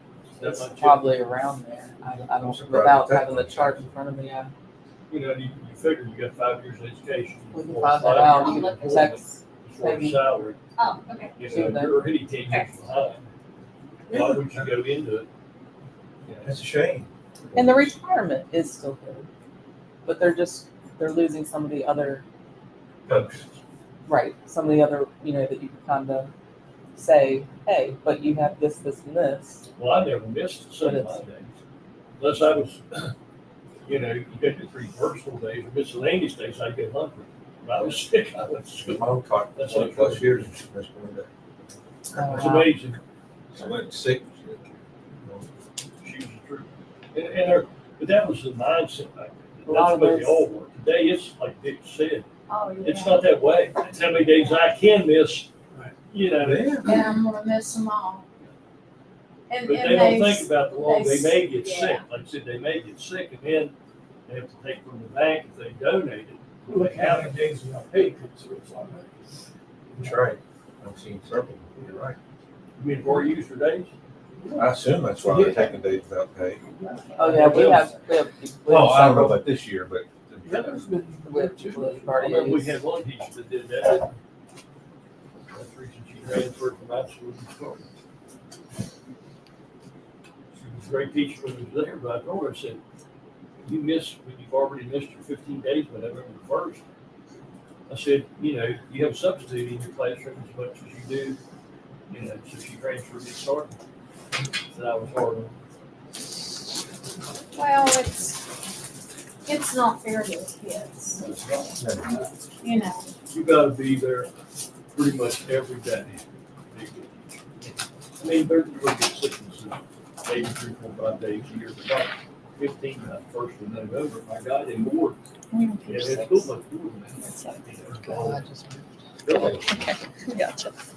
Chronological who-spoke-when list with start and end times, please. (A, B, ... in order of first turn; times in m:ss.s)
0:00.3-0:01.2 A
0:00.5-0:04.5 B
0:02.4-0:03.9 C
0:05.1-0:10.6 A
0:07.5-0:10.2 B
0:08.2-0:09.1 D
0:10.8-0:11.4 D
0:11.4-0:13.3 A
0:11.4-0:12.6 B
0:14.1-0:15.3 A
0:14.1-0:14.6 C
0:16.3-0:16.6 A
0:16.4-0:17.9 C
0:17.5-0:19.3 B
0:20.0-0:22.2 B
0:23.0-0:23.4 C
0:23.1-0:23.4 A
0:24.1-0:26.3 B
0:26.9-0:29.6 B
0:29.8-0:31.5 A
0:30.8-0:31.2 B
0:32.2-0:33.1 A
0:33.9-0:40.5 A
0:38.8-0:41.3 C
0:42.1-0:42.7 B
0:42.2-0:43.0 A
0:43.5-0:45.5 C
0:46.0-0:52.2 A
0:49.7-0:50.5 B
0:52.5-0:53.3 D
0:52.8-0:55.5 A
0:56.1-0:56.8 A
0:56.4-0:57.0 C
0:56.8-0:58.2 D
0:59.5-1:02.0 D
0:59.6-1:03.7 A
1:04.3-1:07.5 A
1:06.7-1:09.3 E
1:10.0-1:10.3 E
1:10.0-1:12.2 C
1:12.8-1:13.9 A
1:14.4-1:16.0 E
1:14.6-1:16.6 C
1:16.7-1:17.9 E
1:17.2-1:19.4 B
1:17.4-1:17.8 A
1:18.7-1:20.9 C
1:20.4-1:22.7 E
1:21.2-1:22.7 B
1:22.2-1:24.2 A
1:25.5-1:27.9 A
1:30.5-1:32.8 A
1:33.6-1:36.8 A
1:37.9-1:41.4 A
1:42.1-1:43.8 A
1:44.7-1:45.5 A
1:47.5-1:48.5 D
1:49.4-1:53.1 D
1:51.2-1:51.7 A
1:51.8-1:52.1 C
1:53.3-1:54.3 A
1:54.9-2:05.2 A
2:05.5-2:06.5 F
2:05.8-2:08.5 A
2:07.2-2:07.6 F
2:08.0-2:09.5 B
2:09.2-2:09.8 A
2:09.7-2:10.7 F